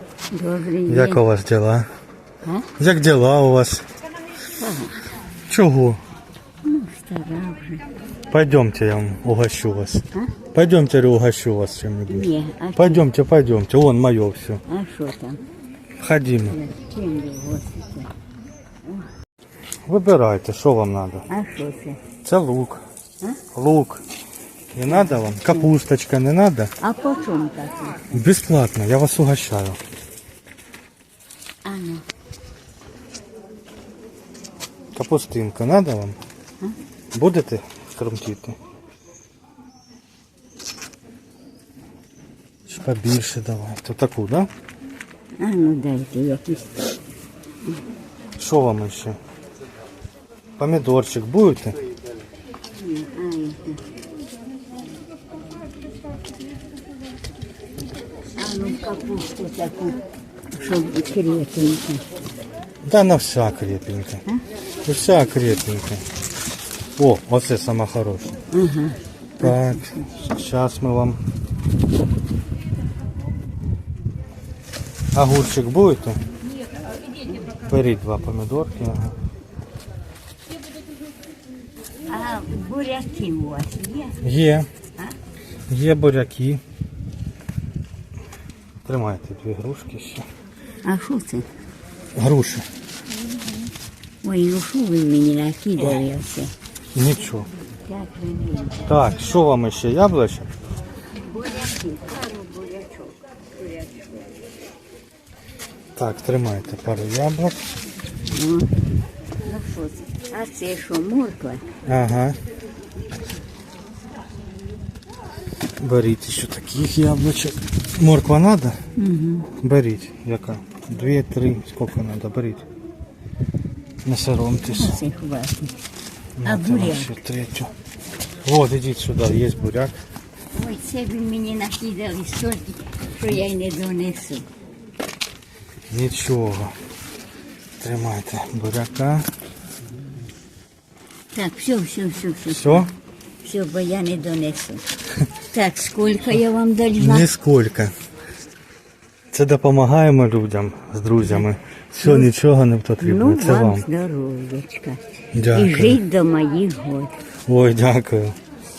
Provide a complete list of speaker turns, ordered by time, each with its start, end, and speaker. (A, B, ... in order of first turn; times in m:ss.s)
0:00.3-0:01.2 A
0:00.8-0:01.9 B
0:02.4-0:02.7 A
0:02.8-0:03.9 B
0:04.5-0:05.1 A
0:05.5-0:06.0 B
0:06.6-0:07.9 A
0:08.3-0:14.6 B
0:12.1-0:13.0 A
0:14.7-0:15.4 A
0:16.0-0:16.6 B
0:16.4-0:18.1 A
0:18.8-0:19.1 A
0:19.8-0:21.3 B
0:21.3-0:22.0 A
0:22.2-0:22.8 B
0:23.5-0:24.0 B
0:24.7-0:26.7 B
0:24.9-0:25.7 A
0:26.8-0:28.2 A
0:28.1-0:29.8 B
0:31.6-0:32.0 A
0:34.9-0:36.2 B
0:37.1-0:38.6 B
0:42.7-0:44.5 B
0:45.4-0:46.9 A
0:48.4-0:49.2 B
0:50.6-0:51.8 B
0:52.8-0:53.8 A
0:58.4-1:00.0 A
1:00.5-1:02.0 A
1:02.8-1:04.2 B
1:04.8-1:06.0 B
1:07.0-1:08.4 B
1:08.5-1:10.0 A
1:09.4-1:11.2 B
1:15.1-1:16.2 B
1:17.6-1:19.1 B
1:22.1-1:24.3 A
1:24.2-1:24.7 B
1:25.7-1:26.6 B
1:28.8-1:30.2 B
1:30.8-1:31.5 A
1:32.1-1:32.6 B
1:34.2-1:36.5 A
1:36.9-1:37.5 B
1:37.8-1:38.8 A
1:38.8-1:40.5 B
1:41.2-1:44.4 A
1:46.0-1:47.6 B
1:48.3-1:48.7 A
1:49.4-1:51.6 A
1:51.8-1:52.4 B
1:55.8-1:58.8 B
1:59.0-1:59.5 A
1:59.6-2:02.6 B
2:04.0-2:05.0 B
2:04.7-2:05.8 A
2:06.4-2:07.7 B
2:06.4-2:07.1 A
2:08.4-2:10.0 B
2:10.5-2:14.4 A
2:15.9-2:16.8 B
2:17.8-2:19.3 B
2:21.3-2:22.8 A
2:22.5-2:22.9 B
2:23.4-2:24.8 A
2:25.5-2:27.3 A
2:27.0-2:27.9 B
2:29.3-2:33.8 B
2:32.0-2:32.3 A
2:33.0-2:37.2 A
2:35.3-2:36.0 B
2:37.5-2:38.4 B